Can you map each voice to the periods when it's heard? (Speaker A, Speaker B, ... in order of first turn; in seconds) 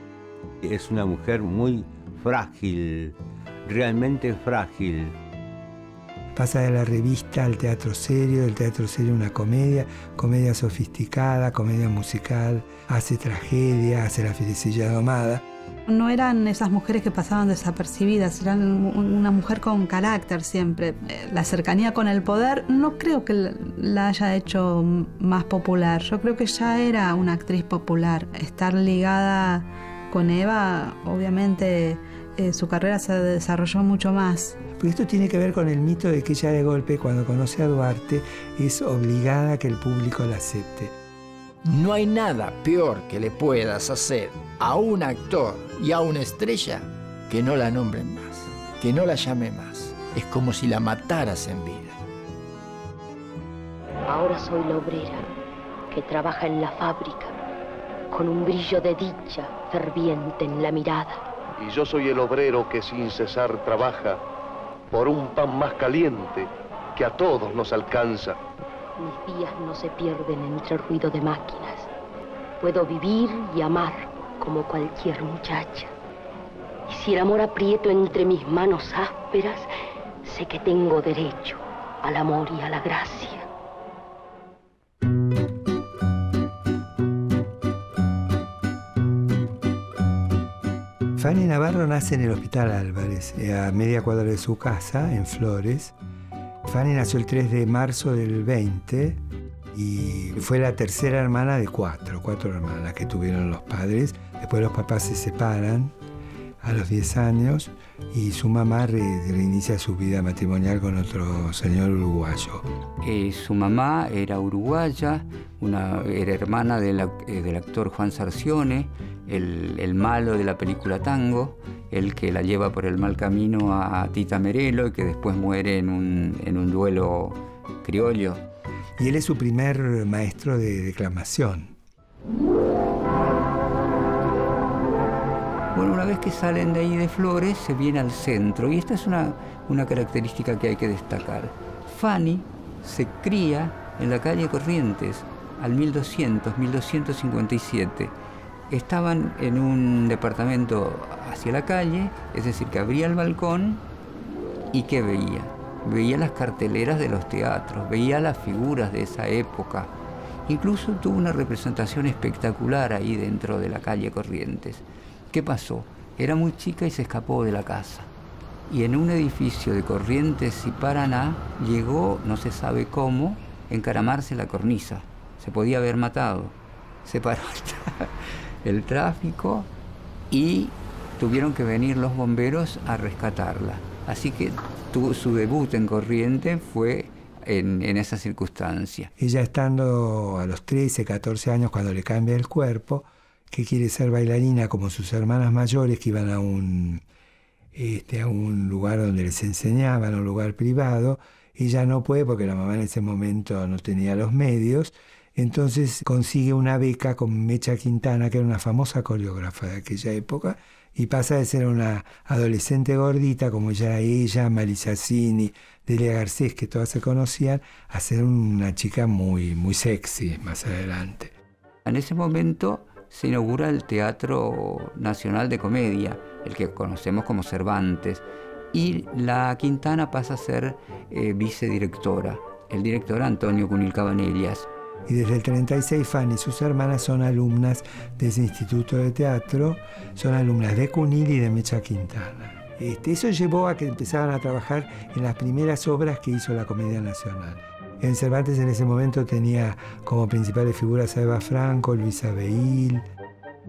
Speaker A: 0.6-5.1
Speaker B: 6.3-15.4, 34.8-40.9, 91.2-95.9, 96.6-99.2, 99.7-105.9, 106.6-112.7, 129.0-131.8, 189.2-197.0, 197.7-221.3, 235.1-253.1
Speaker C: 15.9-34.6
Speaker D: 41.6-52.0
Speaker E: 54.1-55.2, 55.9-57.4, 58.1-61.2, 69.0-71.9, 72.6-75.9, 76.9-79.7, 80.2-83.5
Speaker F: 61.6-64.2, 64.9-68.4
Speaker G: 113.0-128.4, 135.7-148.1, 148.7-153.8, 154.7-159.9, 160.5-168.1, 168.7-178.1, 178.6-179.7, 180.3-189.1, 221.8-234.7